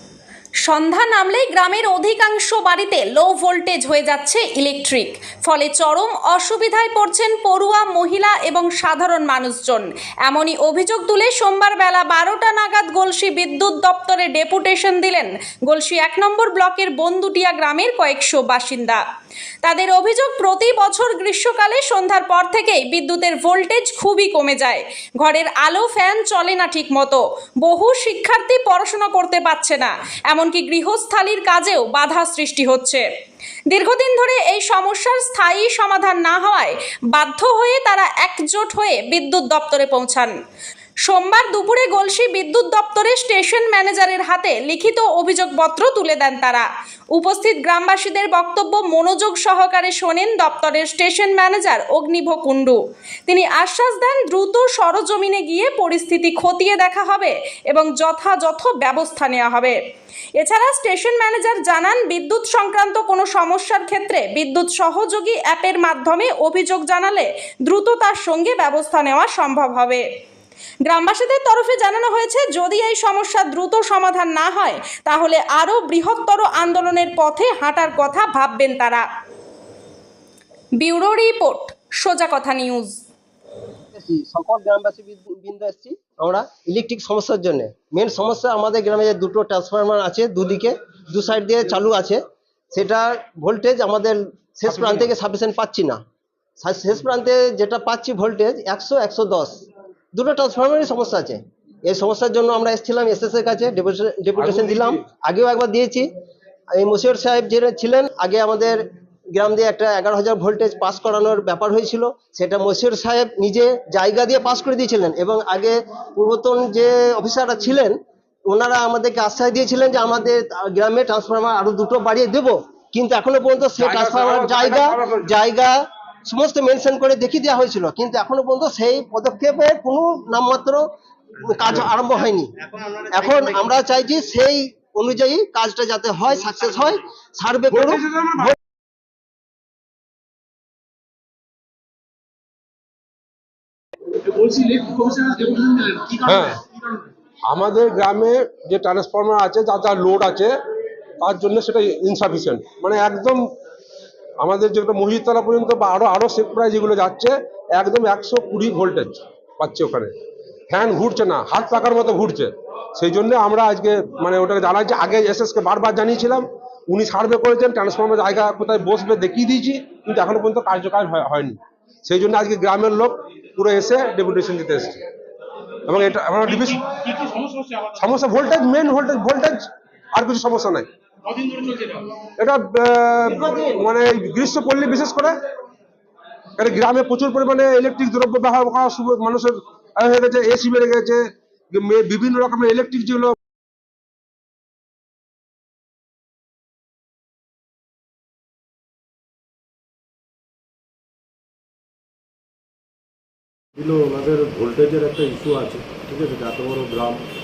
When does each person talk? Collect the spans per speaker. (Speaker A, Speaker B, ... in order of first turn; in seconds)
Speaker A: 0.6-19.0, 19.6-33.0, 33.7-40.4, 41.0-59.8, 60.4-70.0, 70.8-79.0, 80.8-83.0
Speaker B: 83.9-92.2, 92.7-96.0, 96.6-99.5, 100.1-106.1, 106.8-108.8, 109.3-125.8, 126.3-130.8, 131.4-138.6, 183.3-183.8
Speaker C: 104.4-105.0, 123.8-125.3, 137.7-138.5, 146.3-146.6, 147.5-150.5, 151.2-153.5, 154.4-160.1, 160.7-175.0, 175.9-177.1, 178.0-180.9, 182.2-185.4, 186.6-193.4
Speaker D: 144.2-146.9, 176.5-178.1, 181.3-182.1
Speaker E: 203.8-207.2